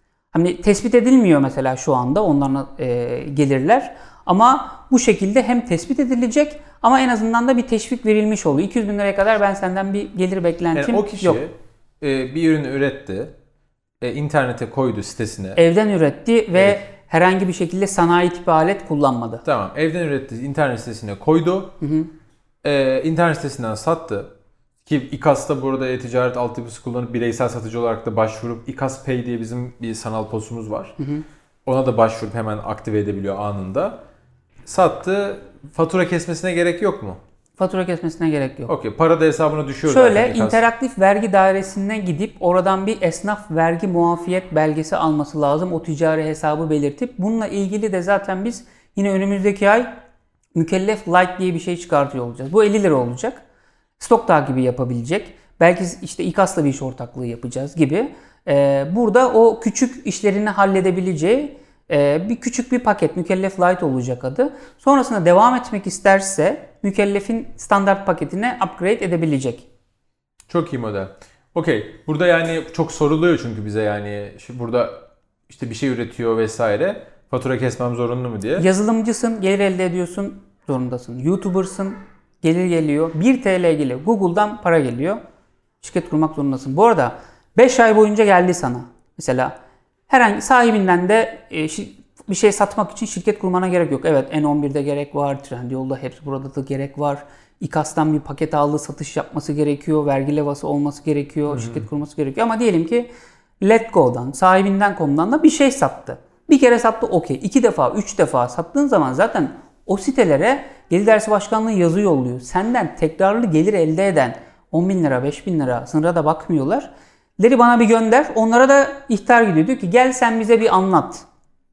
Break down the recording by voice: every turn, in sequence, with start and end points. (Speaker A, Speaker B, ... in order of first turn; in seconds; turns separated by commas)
Speaker A: 0.3-11.4, Speaker B: 10.7-13.3, Speaker B: 14.0-15.6, Speaker A: 15.6-19.4, Speaker B: 16.6-16.8, Speaker B: 19.4-21.8, Speaker A: 21.8-22.1, Speaker B: 22.6-24.3, Speaker B: 24.9-30.9, Speaker A: 31.0-31.2, Speaker B: 31.7-34.0, Speaker B: 34.7-37.2, Speaker A: 37.6-38.7, Speaker B: 38.7-40.6, Speaker A: 39.9-49.9, Speaker A: 50.5-53.4, Speaker A: 54.0-69.7, Speaker B: 70.5-78.7, Speaker A: 78.6-85.2, Speaker A: 85.8-89.5, Speaker A: 90.1-103.1, Speaker B: 101.5-101.8, Speaker A: 103.6-121.2